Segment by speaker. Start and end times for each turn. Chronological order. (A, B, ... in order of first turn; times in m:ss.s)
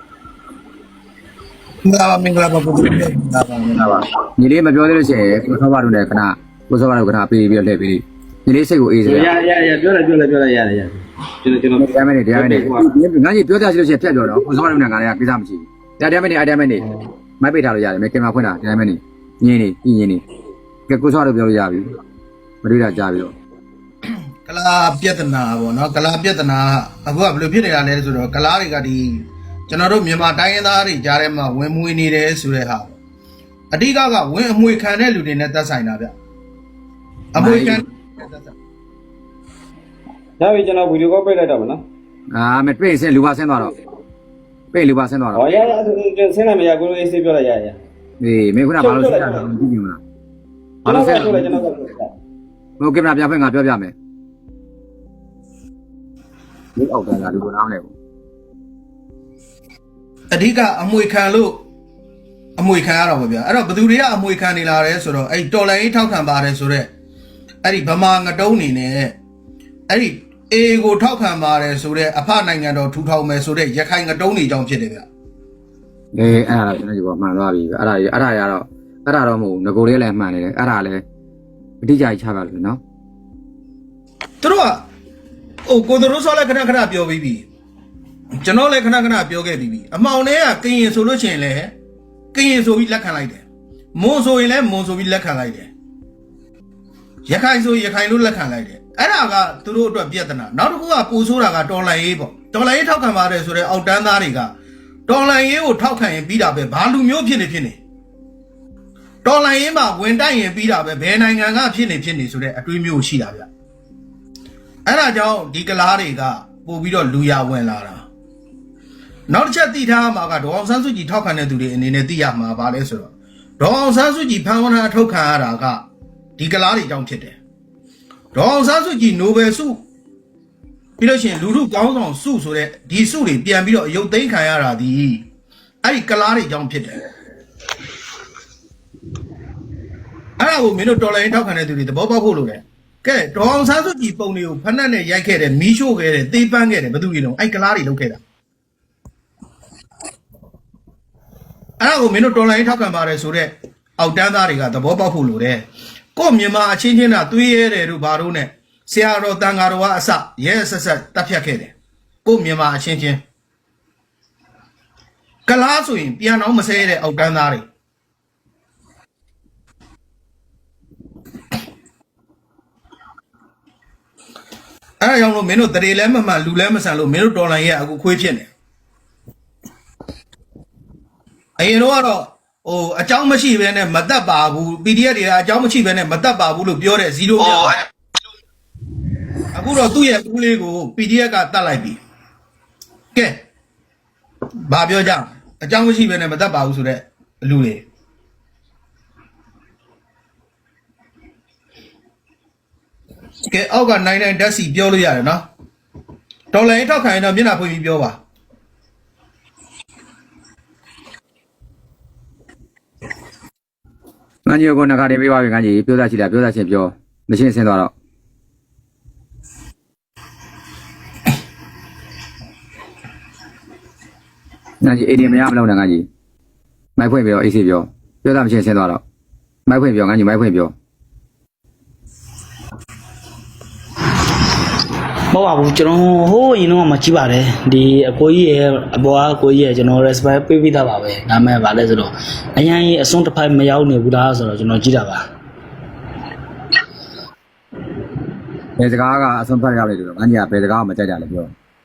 0:01.8-0:03.9 A
0:03.7-0:09.3 B
0:09.0-0:12.9 C
0:11.8-0:20.2 B
0:20.9-0:21.9 B
0:22.6-0:23.3 B
0:24.5-0:32.9 A
0:33.7-0:36.1 A
0:37.3-0:38.5 A
0:37.4-0:37.8 B
0:40.4-0:41.8 C
0:42.3-0:43.7 B
0:44.7-0:45.5 B
0:45.3-0:47.8 C
0:48.2-0:50.0 B
0:48.8-0:49.4 C
0:50.8-0:51.7 B
0:50.8-0:52.1 C
0:52.8-0:53.9 B
0:56.8-0:57.9 B
1:00.3-1:01.6 A
1:02.6-1:06.9 A
1:07.6-1:09.1 A
1:09.9-1:15.0 A
1:16.1-1:21.0 B
1:21.8-1:22.8 B
1:24.4-1:24.8 A
1:25.6-1:27.4 A
1:28.4-1:31.7 A
1:32.3-1:33.4 A
1:34.0-1:35.7 A
1:37.3-1:44.5 A
1:45.1-1:47.8 A
1:49.2-1:53.5 A
1:54.8-1:58.0 A
1:59.3-2:05.8 A
2:06.4-2:07.4 A
2:08.3-2:09.8 A
2:11.0-2:15.2 A
2:15.8-2:17.0 A
2:20.4-2:28.2 A
2:31.8-2:35.6 A
2:36.1-2:41.7 A
2:42.2-2:43.2 A
2:45.5-2:47.6 A
2:55.0-2:58.5 A
3:01.6-3:07.8 A
3:09.5-3:12.0 A
3:13.1-3:13.4 A
3:14.7-3:17.8 A
3:23.5-3:25.4 A
3:26.5-3:28.2 A
3:34.4-3:37.9 B
3:44.8-3:46.1 B
3:47.0-3:49.0 B
3:49.7-3:50.7 B
3:55.3-4:05.2 D
4:08.8-4:11.5 B